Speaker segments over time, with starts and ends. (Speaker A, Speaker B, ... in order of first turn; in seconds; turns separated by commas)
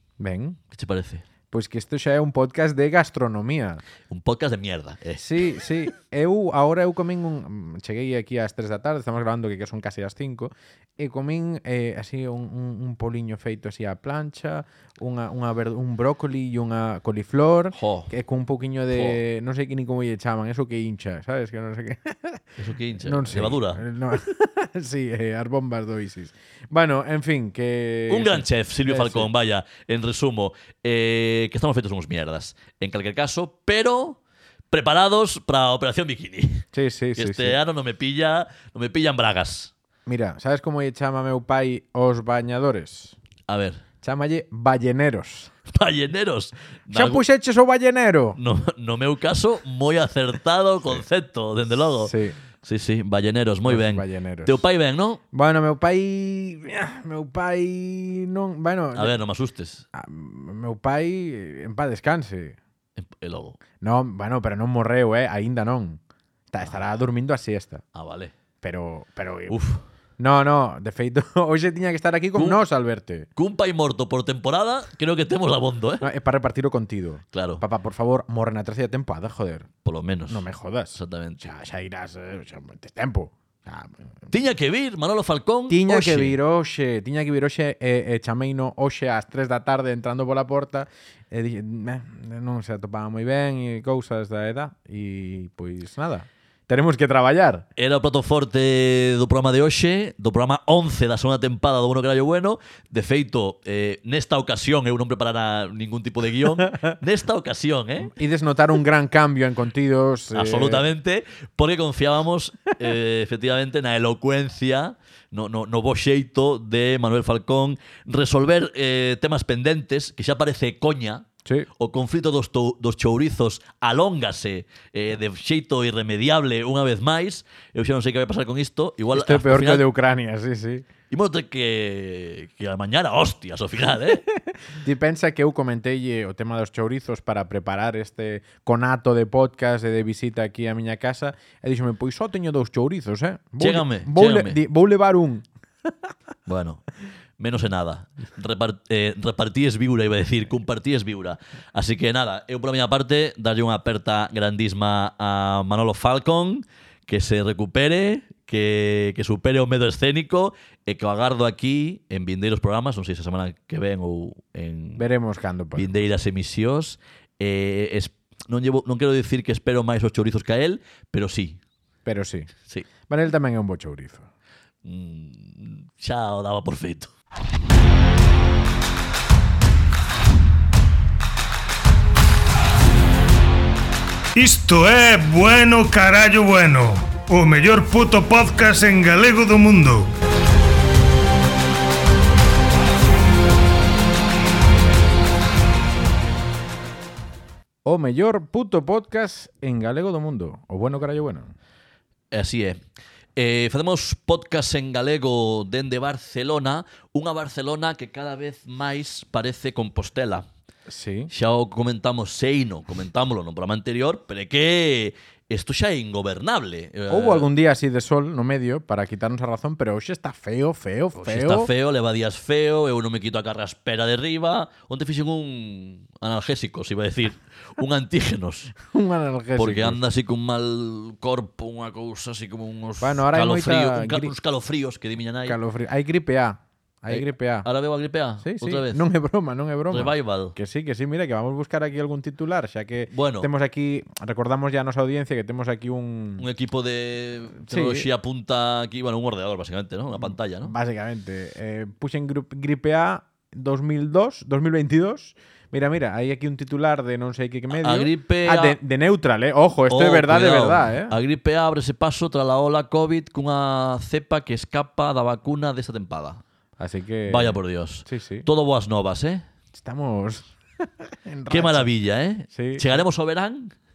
Speaker A: 0.2-0.6, Speaker B: 0.7-1.2, Speaker A: 1.5-3.8, Speaker B: 4.1-5.2, Speaker A: 5.2-29.3, Speaker B: 17.7-18.1, Speaker B: 18.9-19.2, Speaker B: 22.6-23.8, Speaker B: 28.1-34.2, Speaker B: 34.7-39.7, Speaker A: 36.7-37.6, Speaker A: 40.1-43.1, Speaker B: 43.5-43.8, Speaker A: 44.0-45.5, Speaker B: 45.7-47.2, Speaker A: 46.9-48.4, Speaker B: 48.4-55.2, Speaker A: 52.0-52.4, Speaker A: 53.6-54.6, Speaker A: 55.3-59.1, Speaker B: 58.9-59.8, Speaker A: 59.9-62.6, Speaker B: 63.0-63.6, Speaker A: 63.8-66.0, Speaker A: 66.5-67.8, Speaker B: 67.9-68.3, Speaker A: 68.6-69.5, Speaker B: 69.5-69.8, Speaker A: 70.2-73.3, Speaker B: 73.4-76.0, Speaker A: 76.0-79.7, Speaker B: 77.3-77.6, Speaker B: 79.8-80.4, Speaker A: 80.3-84.3, Speaker B: 80.9-81.5, Speaker B: 84.3-86.3, Speaker A: 85.7-97.7, Speaker B: 97.8-108.1, Speaker A: 108.0-110.8, Speaker B: 110.3-121.2, Speaker B: 121.8-129.8, Speaker A: 129.1-130.8, Speaker B: 131.1-134.2, Speaker A: 134.3-145.4, Speaker B: 143.6-144.6, Speaker B: 146.4-146.8, Speaker B: 147.4-165.0, Speaker A: 164.9-165.9, Speaker B: 165.7-171.6, Speaker A: 172.0-172.5, Speaker A: 173.1-174.3, Speaker B: 174.8-177.1, Speaker C: 184.3-190.1, Speaker A: 197.8-201.5, Speaker B: 202.3-202.8, Speaker B: 203.3-210.5, Speaker A: 210.9-211.3, Speaker B: 211.3-217.5, Speaker A: 217.1-221.7, Speaker B: 221.1-228.7, Speaker A: 228.8-230.0, Speaker B: 229.6-235.6, Speaker A: 233.0-234.3, Speaker A: 235.4-237.7, Speaker B: 237.1-239.1, Speaker A: 238.4-246.4, Speaker B: 239.9-240.5, Speaker B: 243.1-243.5, Speaker B: 246.4-250.7, Speaker A: 247.7-248.1, Speaker A: 250.2-261.1, Speaker B: 257.7-258.8, Speaker B: 259.9-266.4, Speaker A: 266.8-268.4, Speaker B: 267.3-269.4, Speaker A: 269.7-271.9, Speaker B: 271.5-273.7, Speaker A: 272.5-273.0